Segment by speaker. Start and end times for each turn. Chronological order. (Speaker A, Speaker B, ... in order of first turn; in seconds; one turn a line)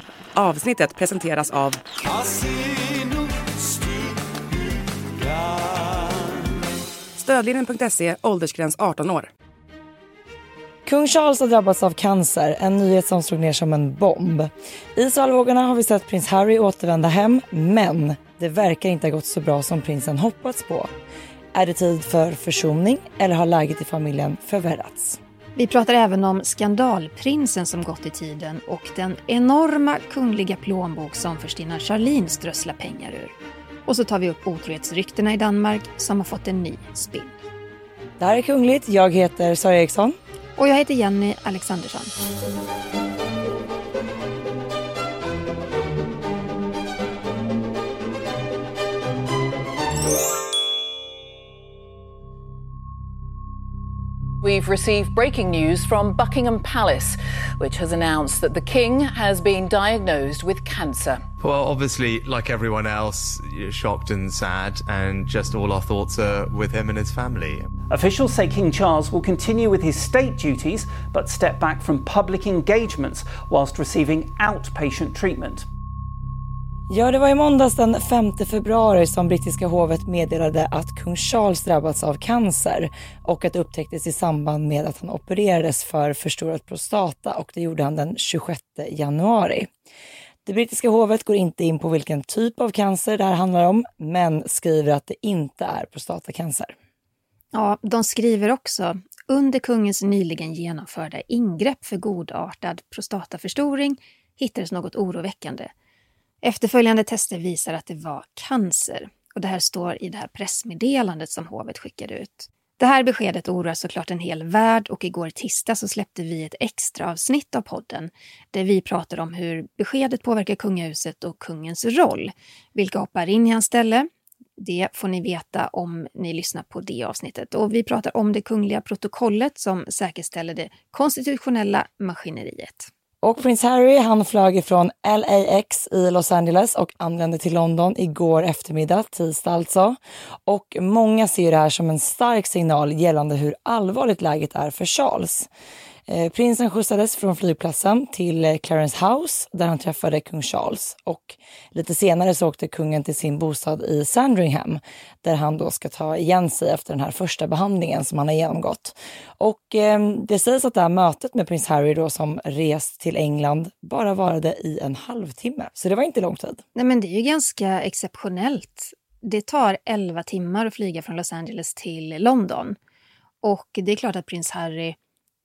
Speaker A: 0.3-1.8
Speaker A: 7.1-9.3
Speaker B: 10.8-20.9
Speaker B: 21.5-25.2
Speaker C: 25.6-33.3
Speaker C: 33.9-37.3
Speaker B: 38.2-40.2
Speaker C: 40.6-42.1
Speaker D: 54.4-61.3
Speaker E: 61.4-67.7
Speaker F: 67.9-75.6
Speaker B: 76.9-89.7
Speaker B: 90.4-96.7
Speaker C: 97.5-105.7
Speaker C: 106.4-132.9
Speaker B: 133.2-145.5
Speaker B: 146.1-166.6
Speaker C: 166.7-172.8
Speaker C: 173.4-174.9